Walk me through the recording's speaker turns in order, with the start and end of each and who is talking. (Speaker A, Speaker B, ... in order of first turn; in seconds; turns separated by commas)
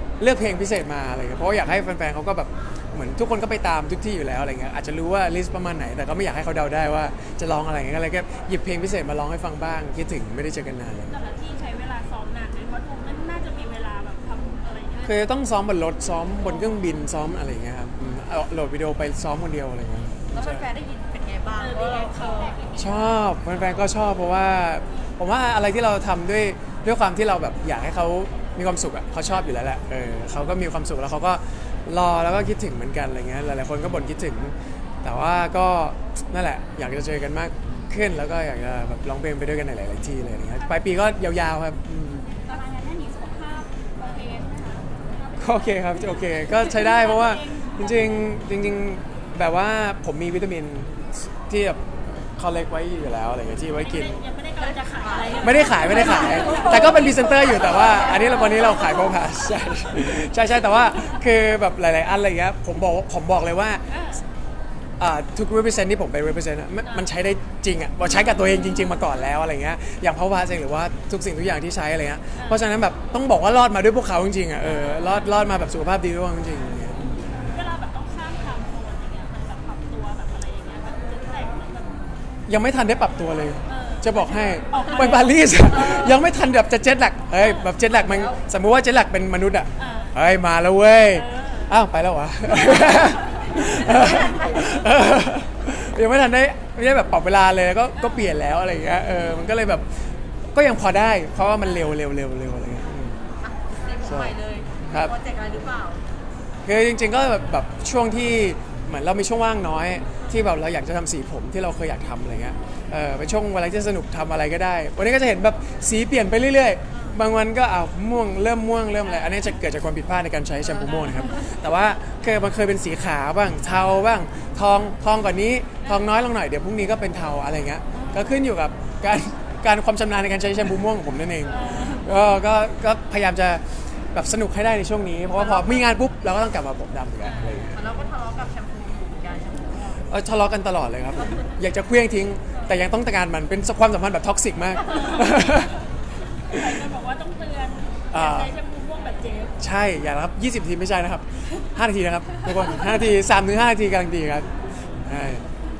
Speaker A: 0.2-11.1, Speaker B: 11.1-15.3, Speaker A: 15.1-20.6, Speaker C: 20.3-22.9, Speaker B: 21.6-22.9, Speaker A: 22.8-42.3, Speaker B: 40.6-40.9, Speaker B: 42.5-48.3, Speaker A: 45.4-51.8, Speaker A: 52.4-54.2, Speaker B: 53.7-58.5, Speaker C: 54.6-59.0, Speaker A: 55.4-63.8, Speaker B: 63.9-64.2, Speaker A: 65.0-77.2, Speaker B: 68.1-68.9, Speaker B: 72.4-72.6, Speaker B: 74.7-75.3, Speaker B: 77.0-82.2, Speaker A: 82.5-99.9, Speaker B: 83.7-86.2, Speaker C: 85.7-86.1, Speaker B: 87.4-87.7, Speaker C: 87.8-88.4, Speaker B: 89.8-90.2, Speaker B: 91.1-91.7, Speaker B: 92.9-93.3, Speaker C: 93.5-94.9, Speaker A: 100.5-103.2, Speaker C: 103.4-106.0, Speaker A: 104.0-104.3, Speaker A: 106.7-137.8, Speaker C: 116.9-117.2, Speaker C: 120.7-121.5, Speaker B: 127.9-128.2, Speaker C: 131.5-131.9, Speaker B: 131.5-132.1, Speaker C: 135.3-135.8, Speaker B: 137.2-137.7, Speaker C: 137.7-140.0, Speaker A: 140.1-145.8, Speaker C: 141.2-141.5, Speaker B: 144.9-145.7, Speaker B: 146.4-149.6, Speaker A: 148.1-148.5, Speaker A: 149.6-154.5, Speaker A: 155.1-155.4